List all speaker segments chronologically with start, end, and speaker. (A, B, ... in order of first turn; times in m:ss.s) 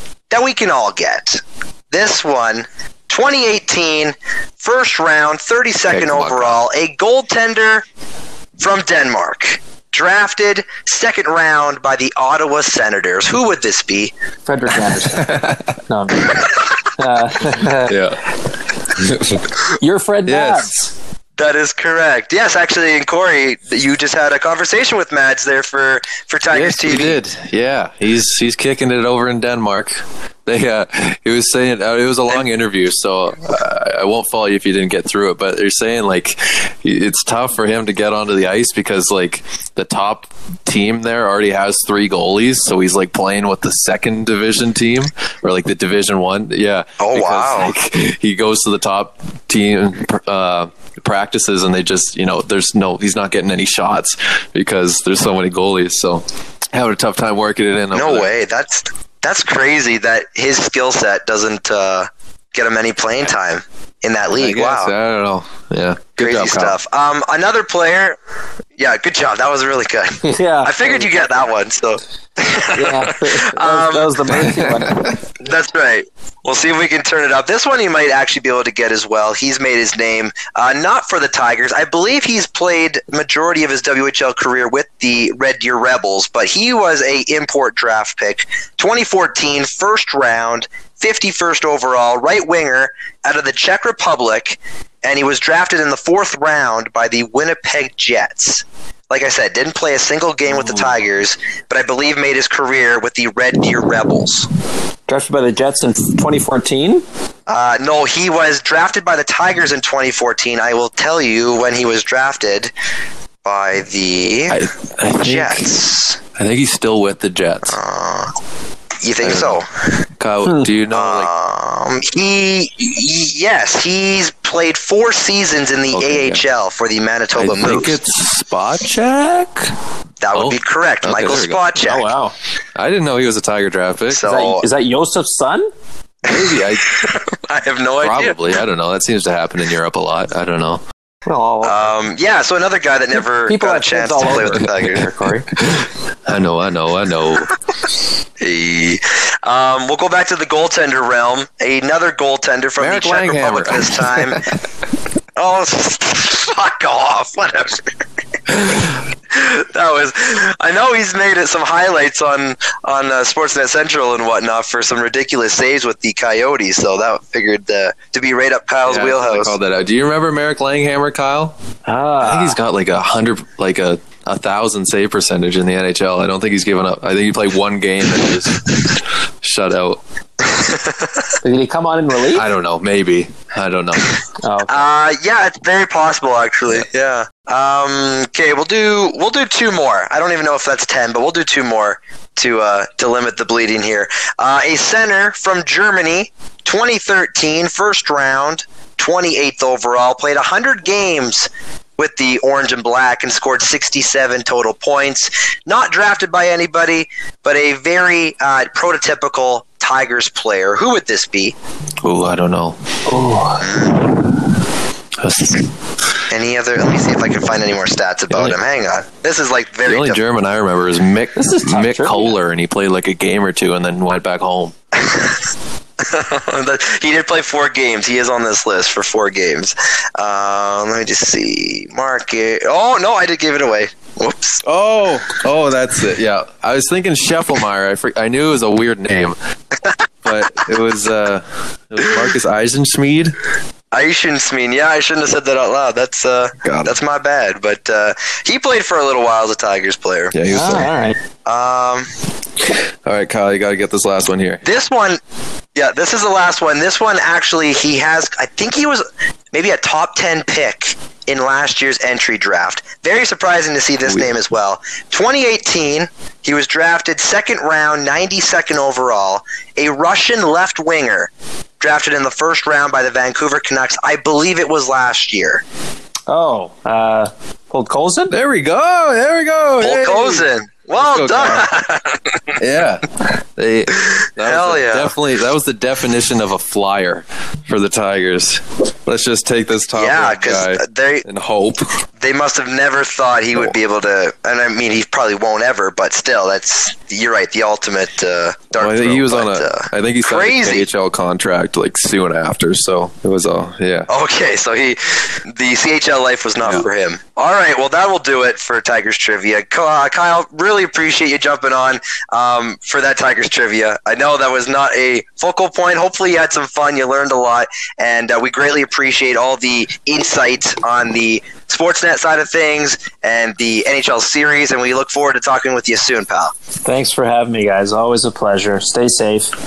0:00.3-0:07.8 A
0:05.9-0:06.6 B
0:08.6-0:14.1 A
0:14.4-0:15.3 C
0:15.1-0:15.8 B
0:15.9-0:17.9 C
0:17.8-0:18.2 B
0:18.9-0:19.6 B
0:19.8-0:20.9 C
0:20.2-0:20.7 B
0:21.4-0:27.2 A
0:26.5-0:58.3 B
0:47.0-0:47.7 A
0:57.9-1:04.9 A
1:04.3-1:06.8 B
1:06.2-1:08.2 A
1:08.8-1:14.2 A
1:10.2-1:11.1 C
1:12.7-1:15.2 C
1:14.4-1:15.1 B
1:15.4-1:44.5 A
1:40.5-1:40.9 C
1:45.1-1:47.0 C
1:47.5-1:52.7 A
1:53.4-1:54.6 A
1:54.5-1:55.7 B
1:55.2-1:56.2 A
1:56.4-1:57.8 B
1:57.7-1:58.3 A
1:59.0-1:59.6 A
1:59.2-1:59.6 B
2:00.2-2:01.3 B
2:00.4-2:00.7 C
2:00.9-2:08.0 A
2:05.9-2:06.4 B
2:07.4-2:09.7 B
2:10.2-2:12.1 A
2:10.3-2:11.7 B
2:11.9-2:12.3 C
2:12.8-2:14.3 B
2:14.1-2:14.6 A
2:14.2-2:15.7 C
2:16.2-2:16.9 B
2:16.2-2:18.6 A
2:18.0-2:20.8 B
2:21.3-2:21.9 C
2:21.6-2:25.0 A
2:23.2-2:25.5 C
2:25.5-2:27.5 B
2:28.4-2:34.4 A
2:32.8-2:34.5 B
2:35.4-2:37.9 A
2:38.7-2:49.5 A
2:48.8-2:51.5 B
2:51.9-2:52.6 C
2:52.2-3:00.0 B
3:00.5-3:01.2 A
3:01.4-3:02.4 C
3:02.3-3:04.1 B
3:04.4-3:04.8 C
3:04.7-3:31.5 A
3:32.0-3:32.8 B
3:33.1-3:33.7 C
3:33.6-3:34.1 A
3:35.2-3:35.7 B
3:36.3-3:40.2 A
3:38.3-3:38.6 B
3:39.8-3:44.7 B
3:41.3-3:42.3 C
3:45.0-3:45.4 A
3:46.0-3:54.6 A
3:54.6-3:59.3 B
4:00.2-4:03.3 B
4:03.9-4:10.3 A
4:06.6-4:07.0 B
4:10.3-4:10.9 B
4:10.5-4:11.2 C
4:11.4-4:12.1 A
4:13.0-4:14.6 B
4:14.6-4:15.2 A
4:15.8-4:35.6 A
4:36.3-4:38.3 C
4:38.3-4:41.7 B
4:39.8-4:42.5 A
4:42.6-4:51.9 B
4:44.4-4:45.1 A
4:49.9-4:51.2 A
4:52.2-5:00.8 A
4:58.8-5:04.1 B
5:04.1-5:26.5 A
5:26.8-5:29.5 C